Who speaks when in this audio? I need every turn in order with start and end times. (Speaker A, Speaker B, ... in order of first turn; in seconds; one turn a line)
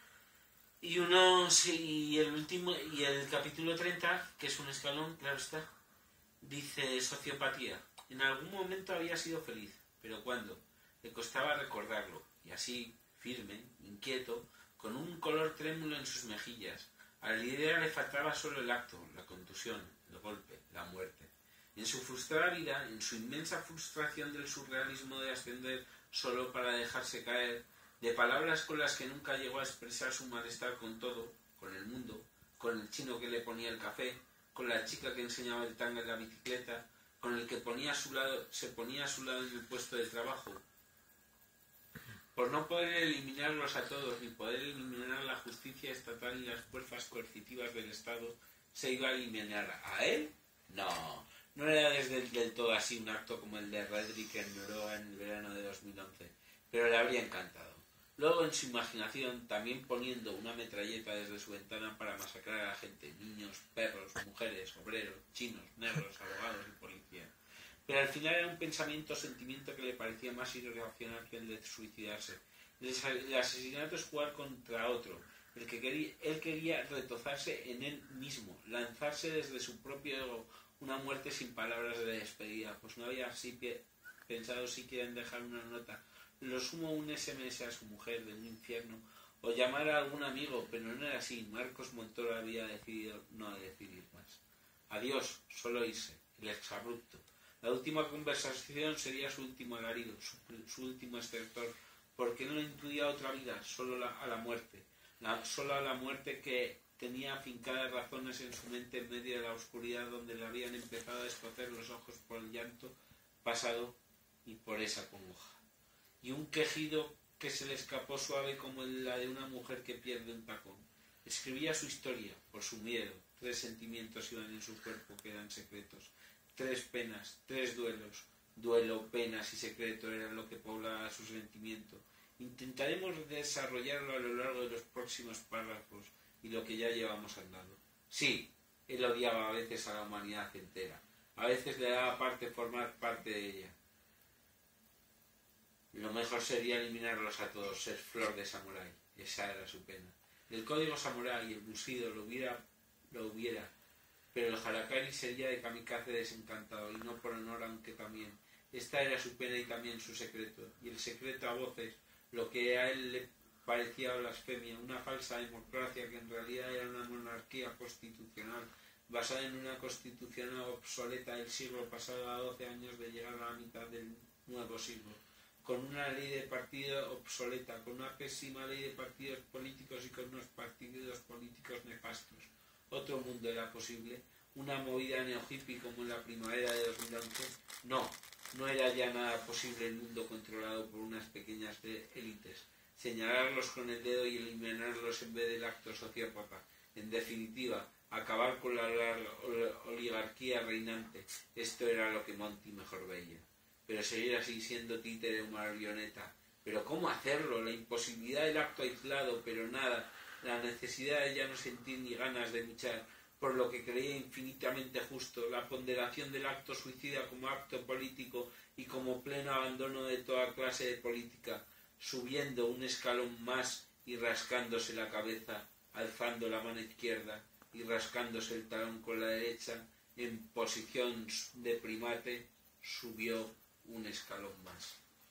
Speaker A: 0.8-5.7
Speaker A: 6.4-40.6
Speaker A: 42.3-67.3
Speaker A: 67.9-115.6
Speaker A: 116.2-143.8
Speaker A: 145.9-153.7
Speaker A: 154.3-235.0